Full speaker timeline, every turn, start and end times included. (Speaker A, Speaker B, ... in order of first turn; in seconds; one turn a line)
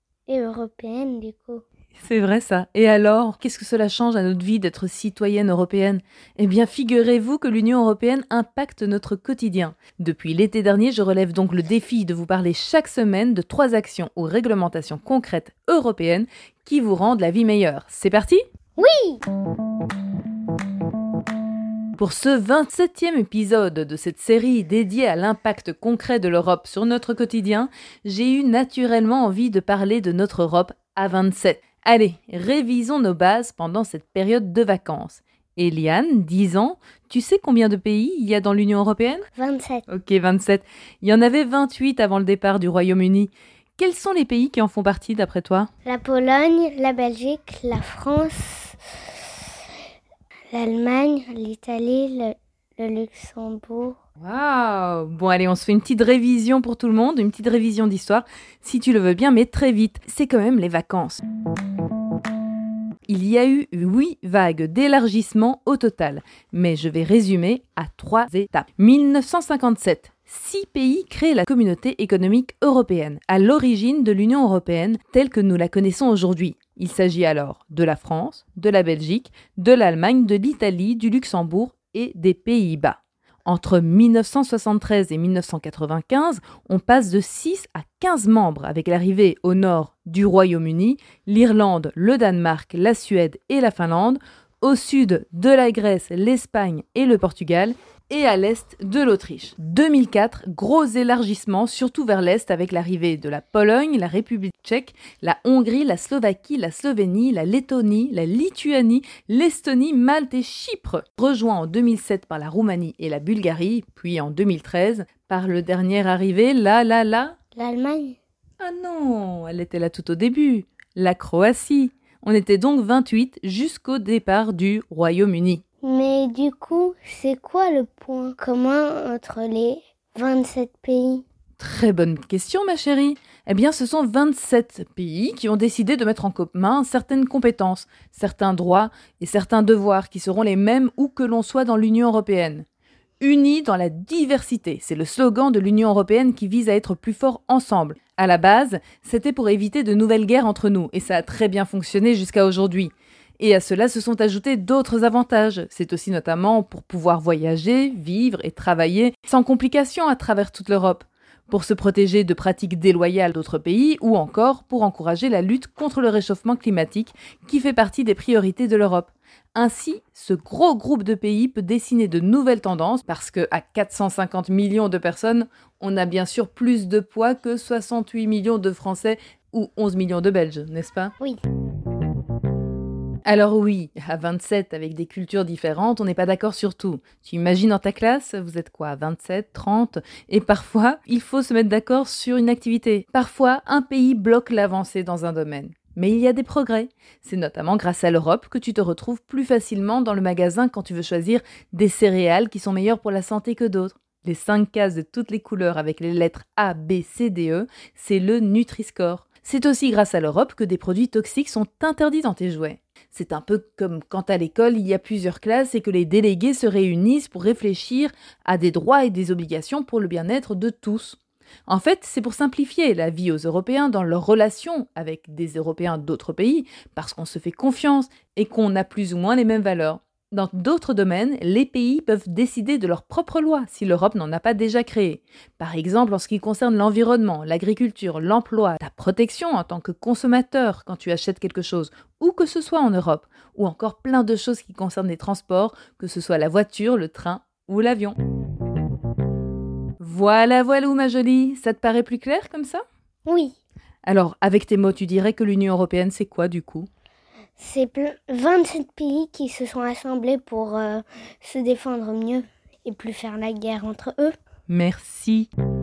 Speaker A: 0.3-1.6
Speaker B: 2.0-18.4
Speaker A: 18.8-19.2
Speaker B: 22.0-39.3
Speaker A: 39.4-39.9
Speaker B: 39.9-45.7
Speaker A: 45.9-48.8
Speaker A: 50.5-54.0
Speaker B: 54.2-61.2
Speaker B: 63.1-117.4
Speaker A: 117.5-118.2
Speaker B: 118.6-125.6
Speaker A: 125.8-131.2
Speaker B: 131.6-142.7
Speaker B: 143.2-181.1
Speaker B: 183.3-248.2
Speaker B: 250.0-252.8
Speaker A: 253.3-253.6
Speaker B: 254.1-256.9
Speaker A: 257.6-264.4
Speaker B: 264.7-265.5